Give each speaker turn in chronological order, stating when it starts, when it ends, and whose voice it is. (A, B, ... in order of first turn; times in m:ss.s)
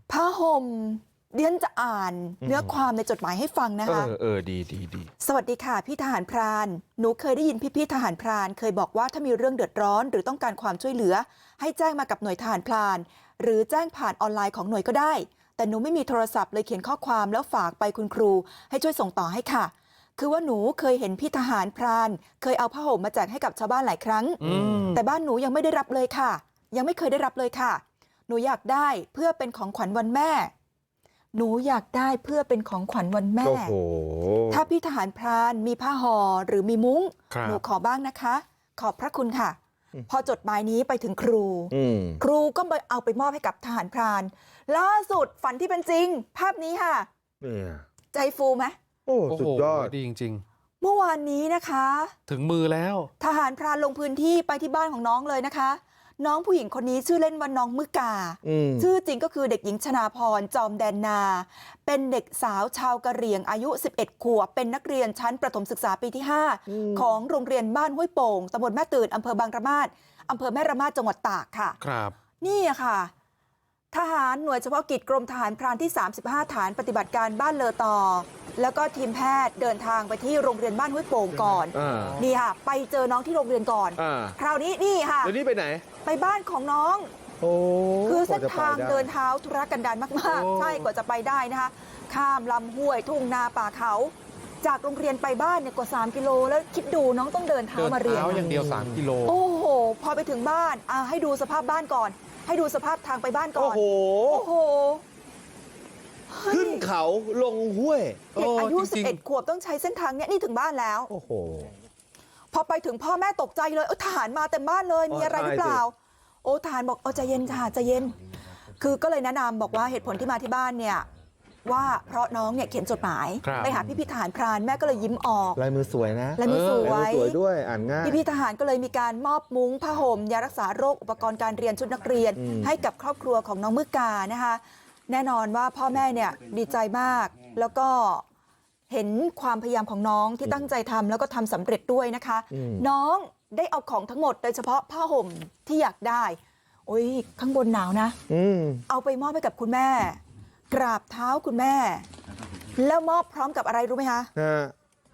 0:00.1-0:04.1 A
0:02.4-0:02.8 B
0:03.8-0:05.1 B
0:05.2-0:30.5 A
0:24.4-0:25.0 C
0:31.3-0:33.7 A
0:33.4-0:34.6 B
0:34.5-0:39.6 A
0:37.3-0:37.6 C
0:40.1-0:47.1 A
0:41.7-0:42.2 B
0:47.4-0:47.8 B
0:48.1-0:48.7 A
0:49.1-0:49.9 B
0:49.3-0:50.4 C
0:50.8-0:52.1 A
0:52.3-0:53.1 C
0:53.2-1:11.8 A
0:58.4-0:58.9 B
1:06.7-1:07.1 B
1:11.8-1:12.1 C
1:12.4-1:13.1 A
1:13.9-1:25.3 A
1:21.7-1:22.2 B
1:21.8-1:22.2 C
1:24.0-1:24.4 B
1:25.2-1:25.8 B
1:26.0-1:27.1 A
1:27.4-1:29.1 B
1:28.0-1:38.5 A
1:30.3-1:30.9 C
1:37.7-1:39.4 C
1:38.4-1:39.0 B
1:39.2-1:45.0 A
1:43.6-1:44.5 B
1:46.3-1:46.9 A
1:46.5-1:48.3 B
1:48.3-1:49.2 C
1:48.3-1:51.1 A
1:51.1-1:51.7 B
1:52.5-1:58.2 A
1:55.1-1:55.8 B
1:58.8-2:01.0 A
2:01.6-2:05.6 A
2:03.4-2:03.7 C
2:05.6-2:08.2 B
2:06.4-2:07.4 A
2:06.4-2:07.0 C
2:08.0-2:18.2 A
2:12.4-2:12.7 B
2:18.9-2:28.2 A
2:22.5-2:22.9 B
2:28.3-2:28.8 B
2:28.9-2:30.2 A
2:30.7-2:32.0 A
2:32.8-2:34.3 A
2:34.4-2:34.7 B